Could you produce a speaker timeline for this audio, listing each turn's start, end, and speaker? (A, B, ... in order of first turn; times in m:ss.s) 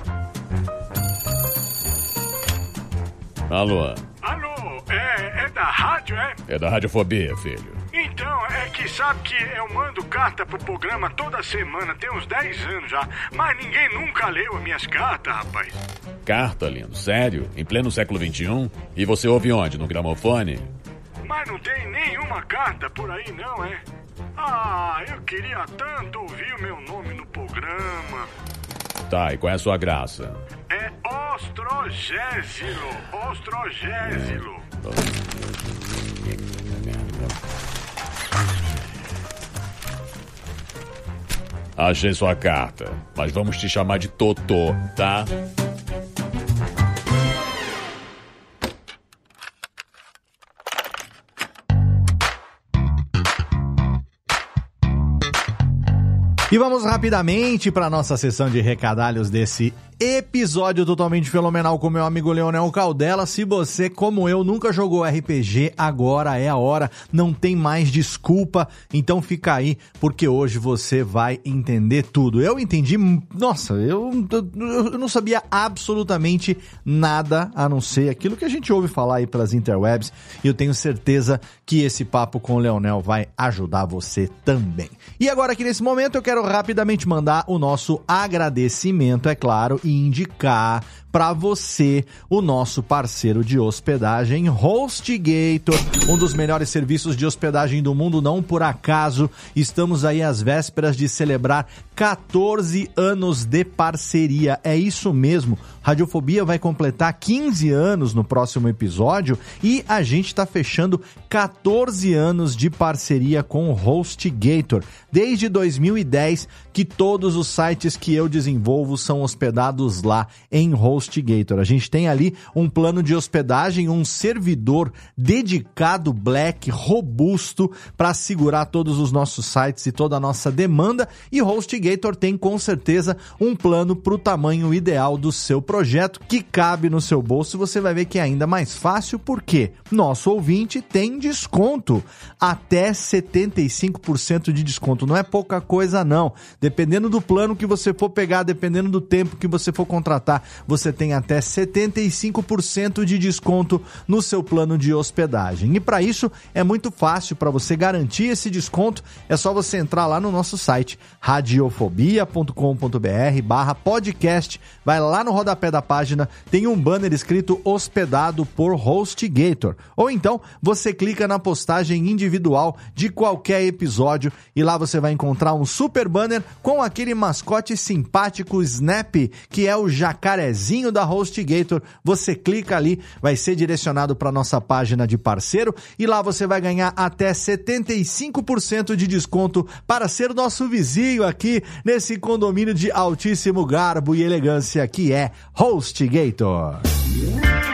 0:03.5-0:04.0 A
0:04.2-0:06.4 B
0:06.5-0:07.8 A
0:07.9-0:15.8 B
0:16.2-0:20.7 A
0:21.2-0:23.8 B
0:24.4-0:28.3 B
0:29.1-0:30.4 A
0:30.7-0:34.6 B
0:34.0-0:37.4 A
0:41.8-0:45.3 A
0:56.5-3:16.8 C